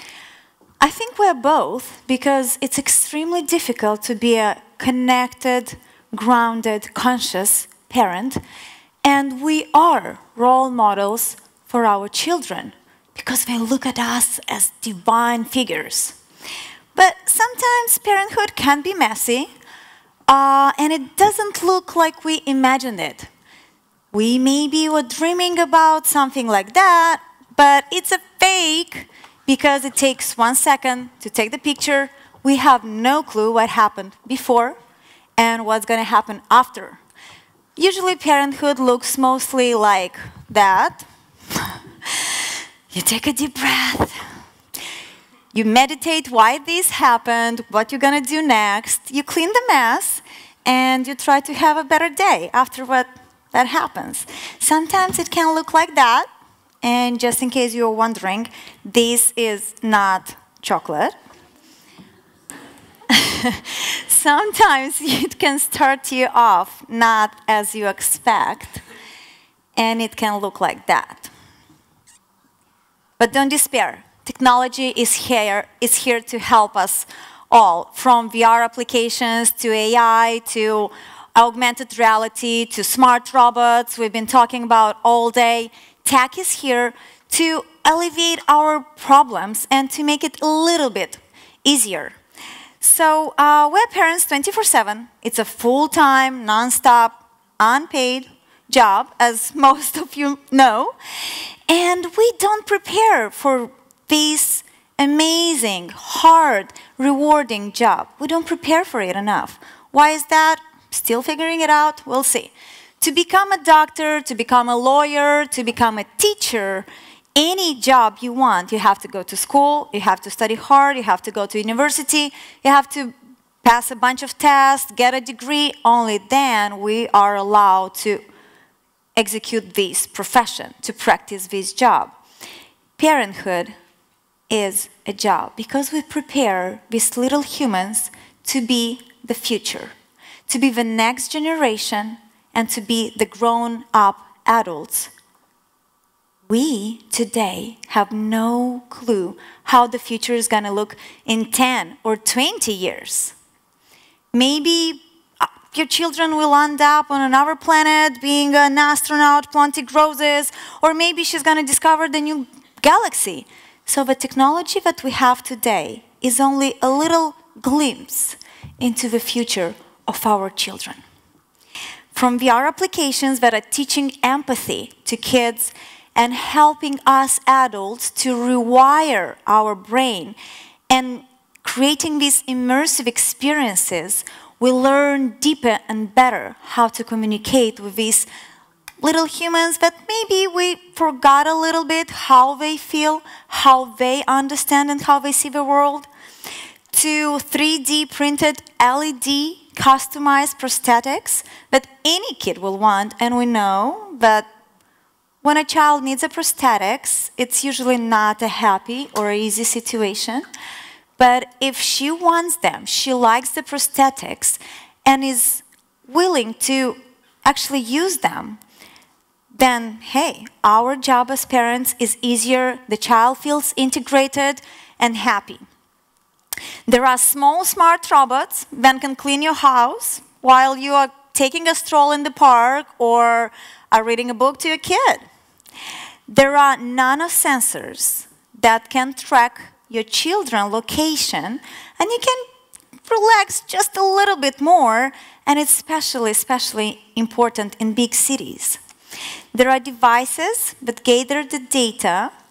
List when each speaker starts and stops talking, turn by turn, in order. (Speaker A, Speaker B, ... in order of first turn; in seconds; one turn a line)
Speaker A: 0.8-8.4
Speaker A: 9.0-16.2
Speaker A: 16.9-19.5
Speaker A: 20.3-23.3
Speaker A: 24.1-34.8
Speaker A: 35.4-37.0
Speaker A: 37.8-44.2
Speaker A: 45.5-56.3
Speaker A: 56.8-61.1
Speaker A: 63.1-68.8
Speaker A: 69.8-71.3
Speaker A: 73.2-92.2
Speaker A: 92.8-128.2
Speaker A: 129.2-132.1
Speaker A: 133.0-133.7
Speaker A: 134.5-139.9
Speaker A: 140.5-145.1
Speaker A: 146.5-153.3
Speaker A: 154.3-171.0
Speaker A: 172.1-180.3
Speaker A: 180.9-188.3
Speaker A: 189.0-196.1
Speaker A: 196.9-204.5
Speaker A: 205.4-210.4
Speaker A: 211.2-218.6
Speaker A: 219.5-225.6
Speaker A: 226.9-235.2
Speaker A: 236.3-242.4
Speaker A: 243.1-248.8
Speaker A: 249.5-252.3